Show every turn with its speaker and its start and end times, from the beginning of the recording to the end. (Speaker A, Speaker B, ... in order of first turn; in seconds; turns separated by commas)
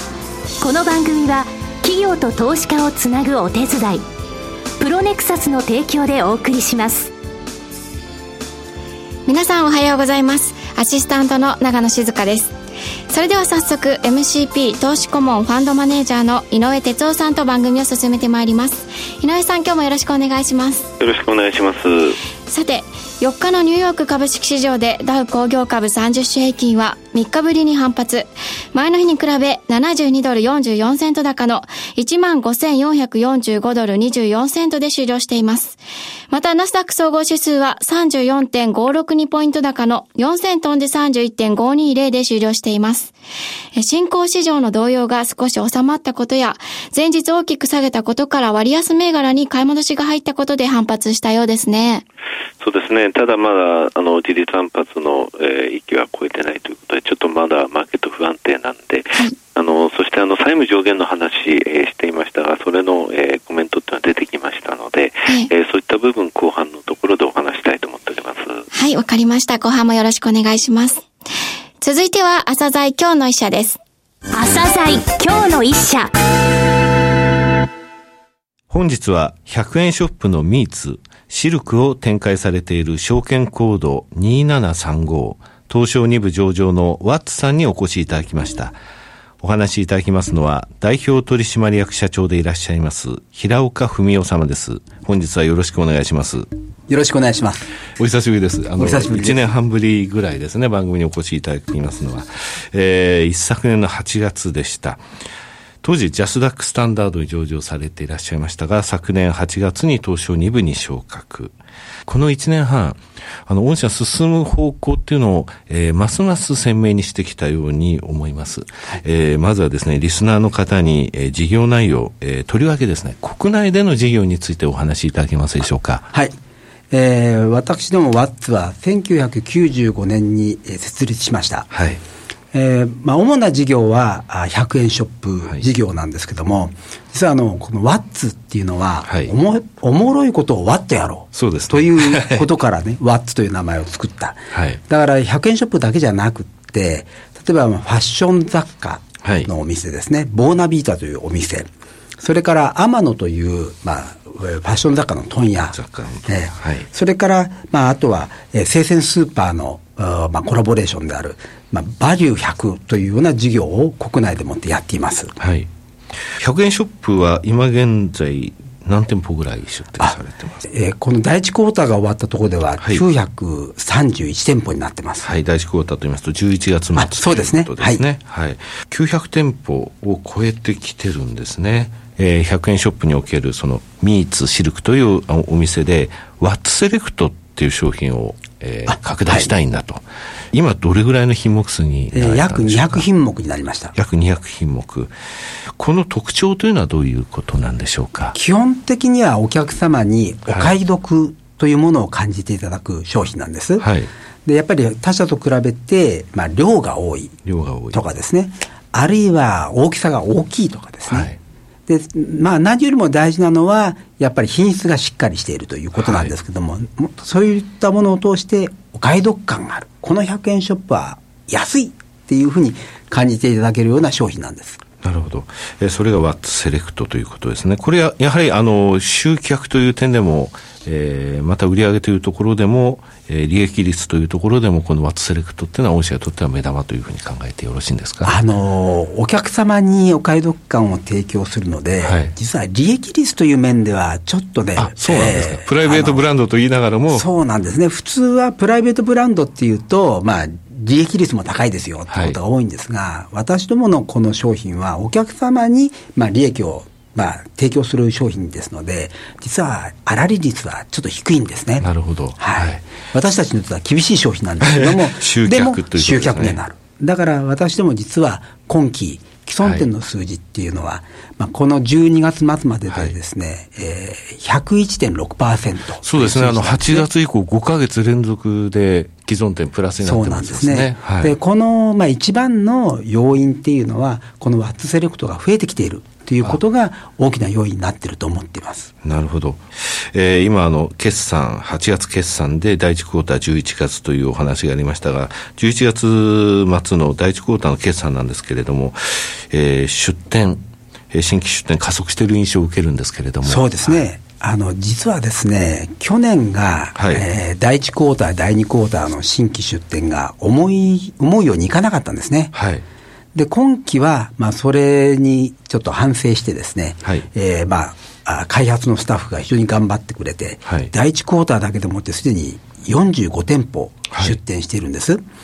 Speaker A: 0.6-4.0, Speaker A: 4.8-7.1, Speaker B: 9.3-12.5, Speaker B: 13.1-20.9, Speaker C: 21.0-22.2, Speaker B: 22.5-35.8, Speaker B: 36.3-43.1, Speaker B: 43.8-52.0, Speaker C: 52.6-68.6, Speaker B: 68.7-71.0, Speaker B: 71.8-73.8, Speaker A: 74.3-76.1, Speaker D: 78.7-88.8, Speaker D: 89.4-96.5, Speaker E: 96.9-97.7, Speaker D: 98.0-105.0, Speaker E: 98.8-99.5, Speaker D: 105.8-111.5, Speaker D: 112.1-126.1, Speaker E: 126.9-131.7, Speaker D: 131.7-132.0, Speaker E: 132.5-151.7, Speaker D: 139.1-139.3, Speaker D: 141.3-142.5, Speaker D: 144.5-144.8, Speaker D: 149.2-149.5, Speaker E: 152.2-165.4, Speaker D: 155.7-156.9, Speaker D: 165.4-165.7, Speaker D: 166.4-170.6, Speaker E: 170.0-175.3, Speaker D: 175.2-193.0, Speaker E: 177.0-178.1, Speaker E: 188.9-189.5, Speaker E: 192.1-193.9, Speaker D: 193.9-195.1, Speaker D: 195.8-198.4, Speaker E: 198.3-203.9, Speaker D: 203.8-204.1, Speaker E: 204.4-207.4, Speaker D: 207.4-208.0, Speaker E: 207.9-211.3, Speaker D: 211.1-211.4, Speaker E: 211.9-224.8, Speaker D: 216.0-216.3, Speaker D: 225.0-238.3, Speaker E: 238.2-246.2, Speaker D: 242.0-242.3, Speaker D: 244.8-247.3, Speaker E: 247.1-261.9, Speaker D: 252.1-252.4, Speaker D: 261.8-262.8, Speaker E: 262.4-277.1, Speaker D: 264.6-266.6, Speaker D: 276.0-281.3, Speaker E: 280.0-288.9, Speaker D: 289.0-303.9, Speaker E: 303.4-312.5, Speaker D: 306.9-307.2, Speaker D: 312.5-312.9, Speaker E: 313.3-325.2, Speaker D: 320.7-320.9